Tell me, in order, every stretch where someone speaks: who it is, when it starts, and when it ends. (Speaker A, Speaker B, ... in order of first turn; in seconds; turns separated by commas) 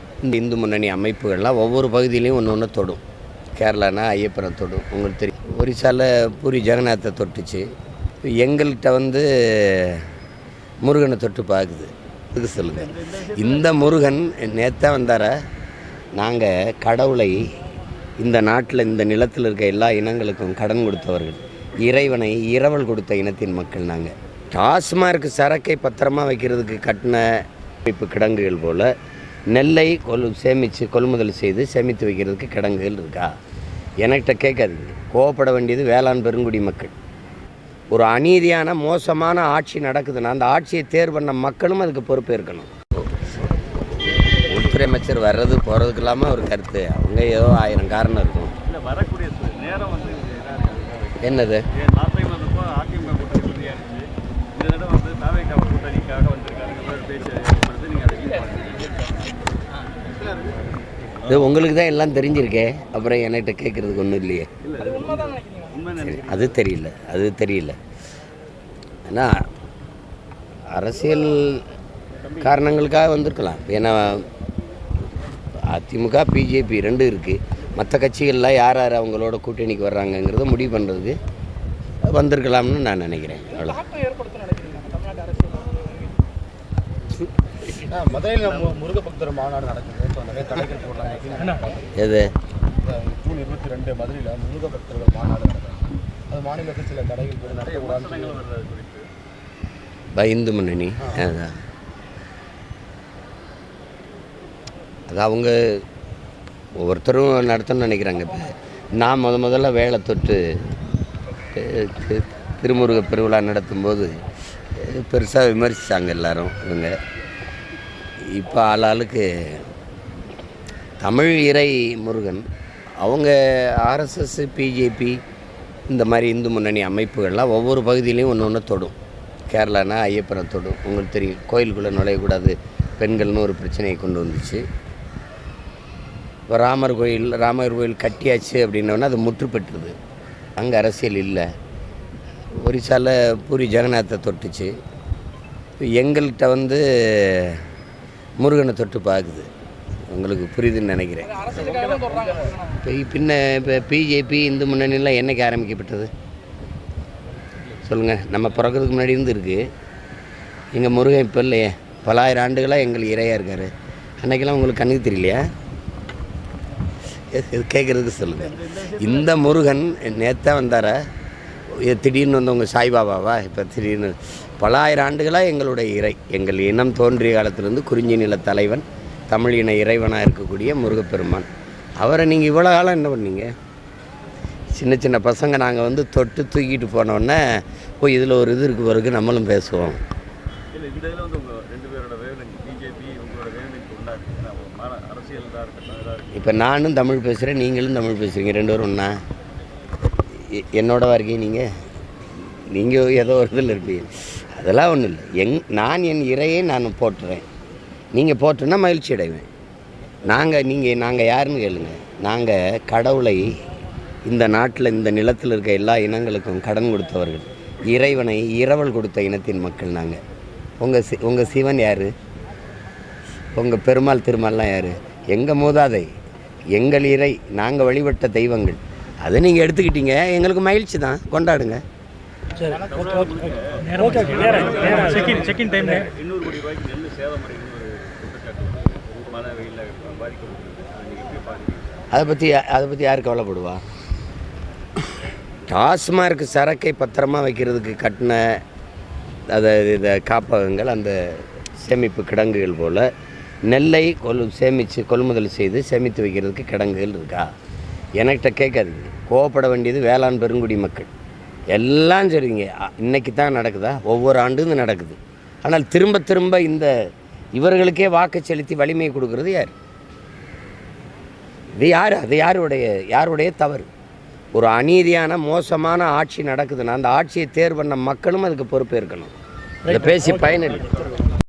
Speaker A: 0.2-3.0, Speaker A: 3.6-7.7, Speaker A: 8.2-10.1, Speaker A: 10.8-15.3, Speaker B: 12.7-13.8, Speaker A: 16.2-17.4, Speaker A: 18.2-28.9, Speaker A: 29.5-33.3, Speaker A: 34.0-36.9, Speaker A: 37.9-43.1, Speaker A: 44.3-48.5, Speaker B: 48.6-51.2, Speaker A: 51.2-51.7, Speaker B: 51.7-59.3, Speaker B: 60.0-60.6, Speaker A: 61.3-64.5, Speaker B: 64.6-66.6, Speaker A: 66.0-67.8, Speaker A: 69.1-69.5, Speaker A: 70.7-71.7, Speaker A: 72.4-74.3, Speaker A: 75.6-81.2, Speaker A: 82.0-83.9, Speaker C: 87.9-91.9, Speaker B: 88.4-88.8, Speaker A: 92.0-92.3, Speaker C: 92.8-98.4, Speaker B: 97.5-99.1, Speaker A: 100.1-101.5, Speaker A: 105.1-105.8, Speaker A: 106.8-110.7, Speaker A: 111.5-117.0, Speaker A: 118.2-119.7, Speaker A: 121.0-122.4, Speaker A: 123.0-125.2, Speaker A: 125.9-128.9, Speaker A: 129.5-134.7, Speaker A: 136.5-139.9, Speaker A: 140.6-141.5, Speaker A: 142.6-144.7, Speaker A: 145.8-147.6, Speaker A: 148.4-149.5, Speaker A: 150.1-151.6, Speaker B: 151.5-152.6, Speaker A: 152.8-156.1, Speaker A: 157.8-159.7, Speaker A: 160.7-165.5, Speaker A: 167.3-171.0, Speaker B: 168.4-169.4, Speaker A: 171.7-183.5, Speaker A: 184.8-190.0, Speaker B: 190.7-196.5, Speaker A: 196.3-199.1, Speaker A: 200.4-201.7, Speaker A: 202.4-207.5, Speaker A: 208.1-209.5, Speaker A: 210.3-213.5, Speaker A: 214.2-220.2, Speaker A: 220.8-222.1, Speaker A: 223.5-226.1, Speaker A: 226.7-231.8, Speaker B: 232.6-242.1, Speaker A: 242.1-243.8, Speaker A: 245.7-248.6, Speaker A: 249.5-253.1, Speaker A: 253.7-257.5, Speaker A: 258.2-261.1, Speaker A: 261.7-266.9, Speaker A: 267.6-269.7, Speaker A: 271.8-273.9, Speaker A: 274.5-279.3, Speaker A: 279.9-281.0